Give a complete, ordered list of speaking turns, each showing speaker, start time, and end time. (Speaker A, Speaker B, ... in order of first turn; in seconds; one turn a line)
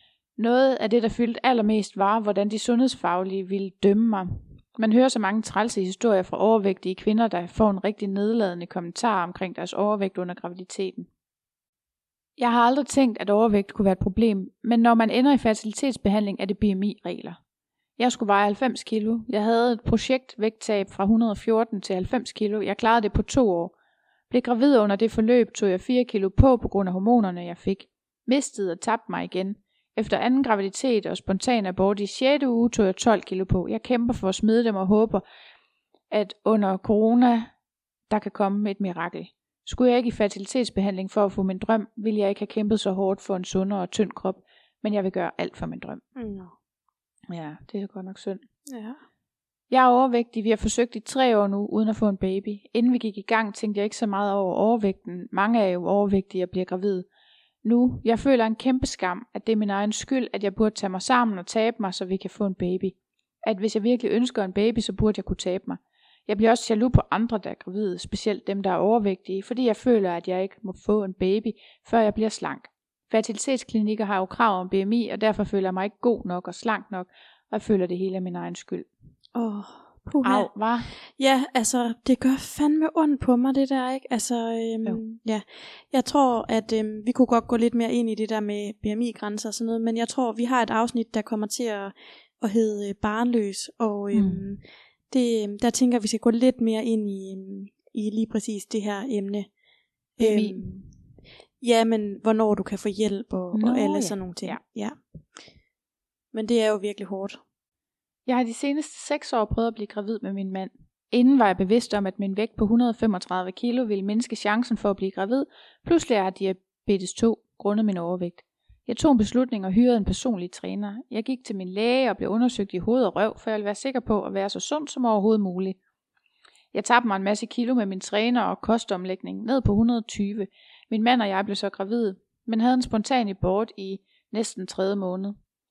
Speaker A: 0.4-11.1
Speaker A: 12.4-17.4
Speaker A: 18.0-23.7
Speaker A: 24.3-35.2
Speaker A: 36.1-37.5
Speaker A: 38.1-46.0
Speaker B: 46.1-46.5
Speaker A: 47.3-48.4
Speaker B: 48.6-49.0
Speaker A: 49.7-57.1
Speaker A: 57.6-78.9
Speaker B: 79.3-99.5
Speaker A: 80.2-80.9
Speaker A: 94.1-94.5
Speaker B: 100.2-101.0
Speaker A: 100.2-100.6
Speaker B: 101.6-105.0
Speaker A: 103.5-104.6
Speaker B: 106.3-107.4
Speaker A: 108.2-125.8
Speaker A: 126.7-135.4